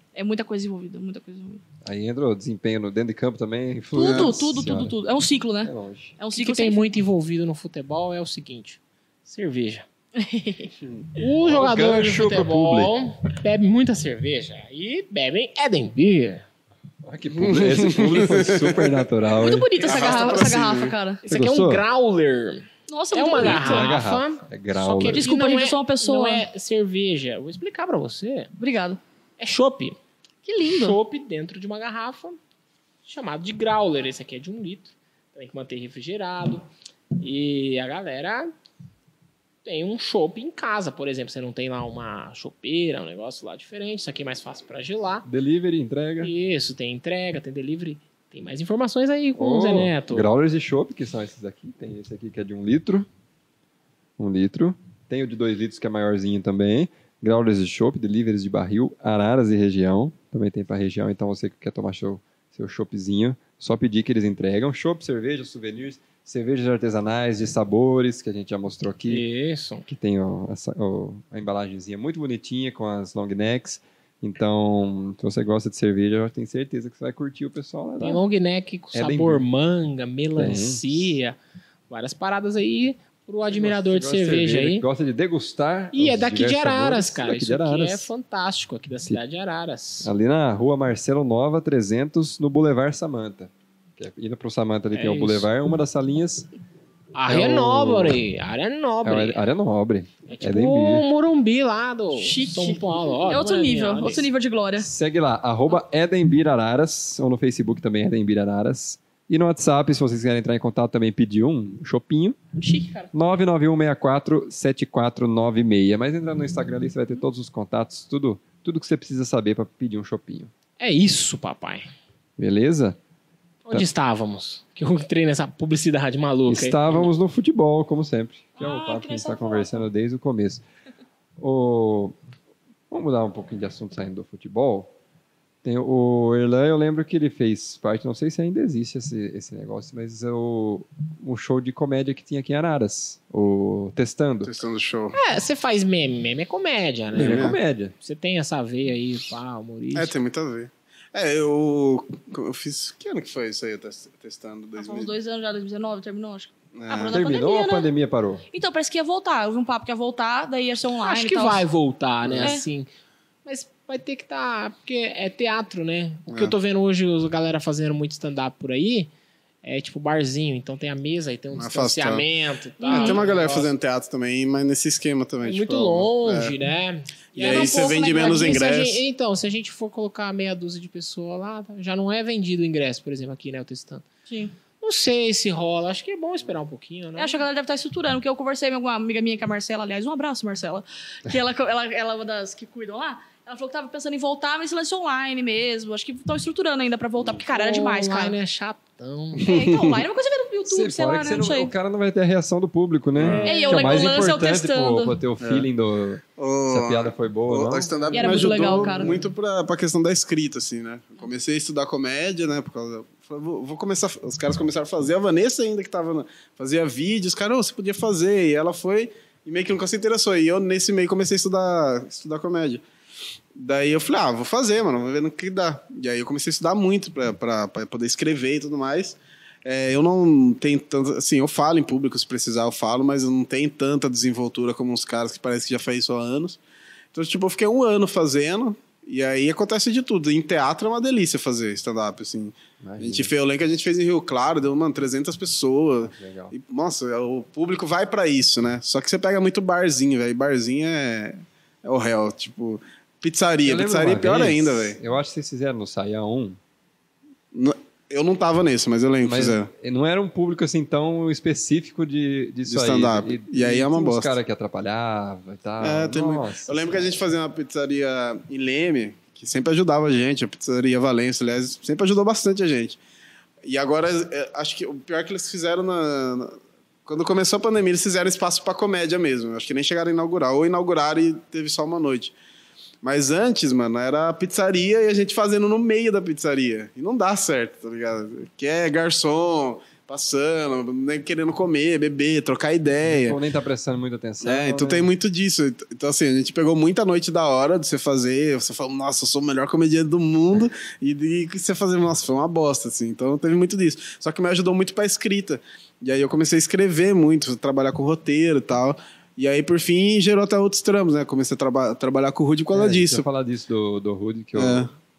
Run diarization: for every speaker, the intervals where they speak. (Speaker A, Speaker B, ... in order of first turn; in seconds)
Speaker A: 0.1-1.6, 3.9-6.9, 10.2-10.7, 19.3-21.2, 22.9-23.9, 25.1-26.4, 28.6-29.0, 30.4-31.0, 102.2-104.9, 112.6-113.1, 128.6-129.8, 154.8-157.9, 158.5-161.7, 172.8-173.2, 177.4-178.6, 184.3-184.5, 187.2-198.3, 199.4-201.7, 203.4-205.2, 208.1-209.1
Speaker B: 1.8-5.0, 5.6-6.2, 11.4-12.9, 17.0-19.7, 21.3-21.9, 23.4-25.3, 45.2-46.3, 49.4-53.1, 54.2-69.2, 69.8-78.2, 78.9-79.4, 80.4-81.2, 83.5-88.1, 90.0-96.5, 97.3-98.2, 99.0-101.0, 104.8-112.4, 113.1-120.5, 122.4-123.0, 126.5-130.6, 131.4-132.2, 132.9-134.9, 135.6-144.6, 147.1-147.9, 157.1-158.4, 200.7-207.9, 242.8-243.3, 246.0-246.5, 253.6-256.6, 259.2-267.1, 293.0-295.1, 312.7-314.9
Speaker C: 4.0-4.4, 17.3-19.0, 19.8-20.9, 144.4-145.2, 147.1-147.6, 149.9-155.1, 156.7-157.2, 162.2-162.5, 166.3-166.5, 171.5-172.3, 172.9-176.5, 177.3-179.0, 199.4-200.0, 203.2-203.5, 205.4-205.7, 206.4-222.8, 223.5-236.6, 237.1-255.0, 257.5-259.7, 262.7-264.3, 265.8-273.0, 273.6-282.3, 283.0-293.4, 294.4-313.2, 314.5-314.9
Speaker D: 6.3-9.8, 11.2-16.4, 21.2-28.5, 29.4-30.0, 30.6-32.4, 33.0-36.6, 37.2-38.5, 39.6-45.3, 46.2-50.3, 69.1-69.8, 78.0-81.4, 81.9-84.8, 85.9-90.1, 94.9-95.5, 97.1-99.4, 100.3-104.3, 120.8-121.9, 123.6-126.8, 145.1-150.1, 161.0-162.9, 163.4-169.1, 169.6-173.7, 175.4-184.1, 184.8-187.4, 197.5-199.5, 203.2-204.1, 207.9-209.3